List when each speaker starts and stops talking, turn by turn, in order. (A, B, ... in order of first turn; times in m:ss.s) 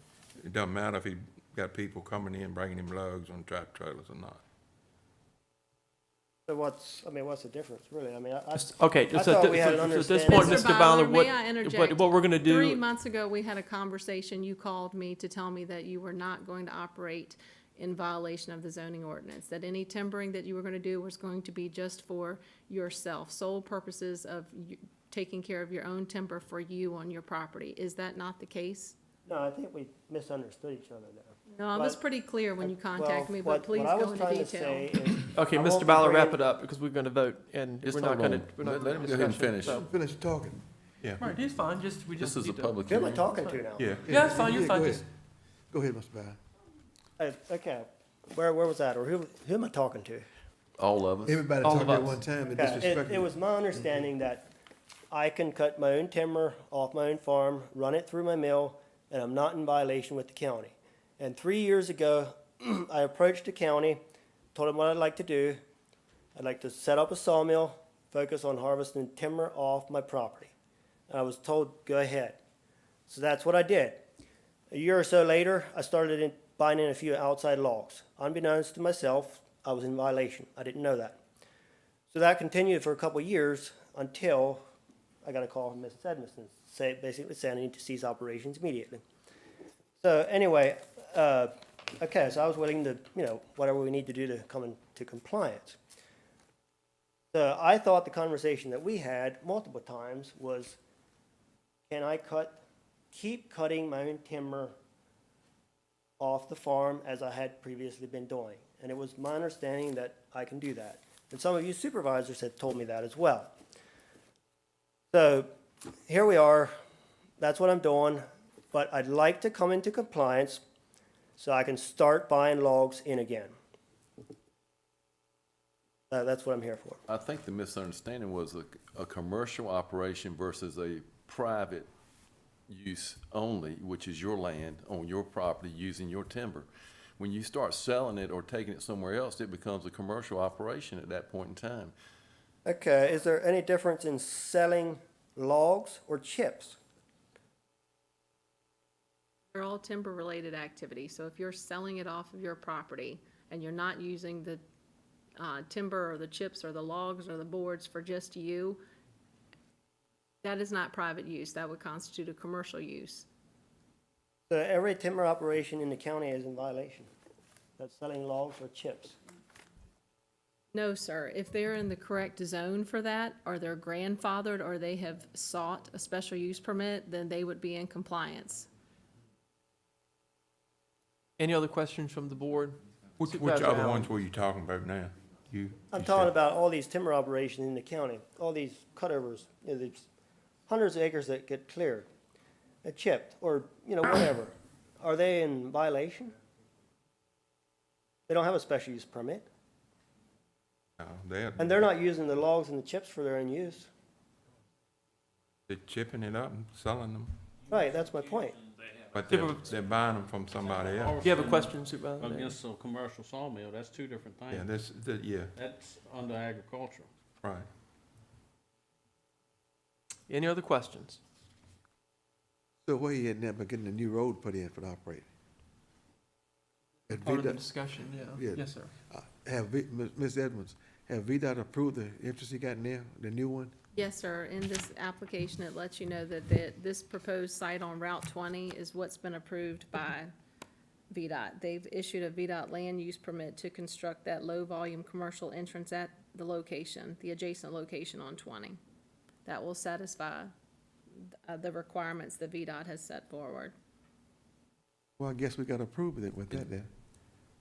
0:00.4-0:04.4 A
0:06.5-0:10.7 B
0:08.5-0:12.8 C
0:10.2-0:29.0 D
0:29.3-0:32.0 B
0:31.5-0:35.2 D
0:32.6-0:36.4 B
0:35.3-0:39.9 C
0:37.8-0:39.9 E
0:39.8-0:40.6 F
0:41.2-0:45.0 C
0:42.2-0:43.3 E
0:42.9-0:44.0 B
0:43.8-0:44.0 A
0:44.0-0:45.0 F
0:45.7-0:46.4 F
0:47.2-0:50.3 B
0:50.8-0:51.4 E
0:51.2-0:53.3 F
0:51.6-0:52.2 C
0:52.6-0:54.5 B
0:55.1-1:04.0 B
1:04.6-1:05.6 B
1:06.3-1:10.5 B
1:11.1-1:12.4 B
1:13.1-1:14.0 B
1:14.7-1:21.2 B
1:22.1-1:24.6 B
1:25.2-1:29.0 B
1:30.0-1:35.8 B
1:37.3-1:40.8 B
1:41.9-1:42.6 B
1:43.1-1:44.7 B
1:46.2-1:53.5 B
1:55.1-1:55.5 B
1:56.1-1:56.7 B
1:57.4-2:00.6 B
2:01.4-2:03.6 B
2:06.1-2:07.0 B
2:07.1-2:11.9 E
2:12.7-2:21.9 E
2:22.6-2:26.8 B
2:29.5-2:34.6 D
2:35.4-2:38.8 D
2:40.4-2:43.3 D
2:44.5-2:47.1 B
2:47.8-2:49.2 B
2:50.7-2:58.7 D
3:01.4-3:04.1 C
3:03.2-3:06.3 A
3:05.9-3:10.1 B
3:10.7-3:12.1 B
3:12.8-3:16.3 B
3:18.3-3:19.5 B
3:21.0-3:21.8 A
3:21.6-3:23.9 B
3:25.7-3:27.4 A
3:27.7-3:28.6 B
3:29.1-3:31.2 A
3:29.3-3:29.6 C
3:30.6-3:34.7 G
3:31.2-3:32.6 C
3:34.5-3:35.5 A
3:35.6-3:37.1 G
3:37.4-3:37.7 A
3:40.3-3:41.2 C
3:42.8-3:45.3 F
3:47.1-3:47.7 F
3:47.2-3:48.9 C
3:48.3-3:53.7 F
3:53.9-4:00.3 D
4:01.1-4:08.8 D
4:09.4-4:10.5 D
4:11.5-4:13.8 D
4:15.2-4:16.9 F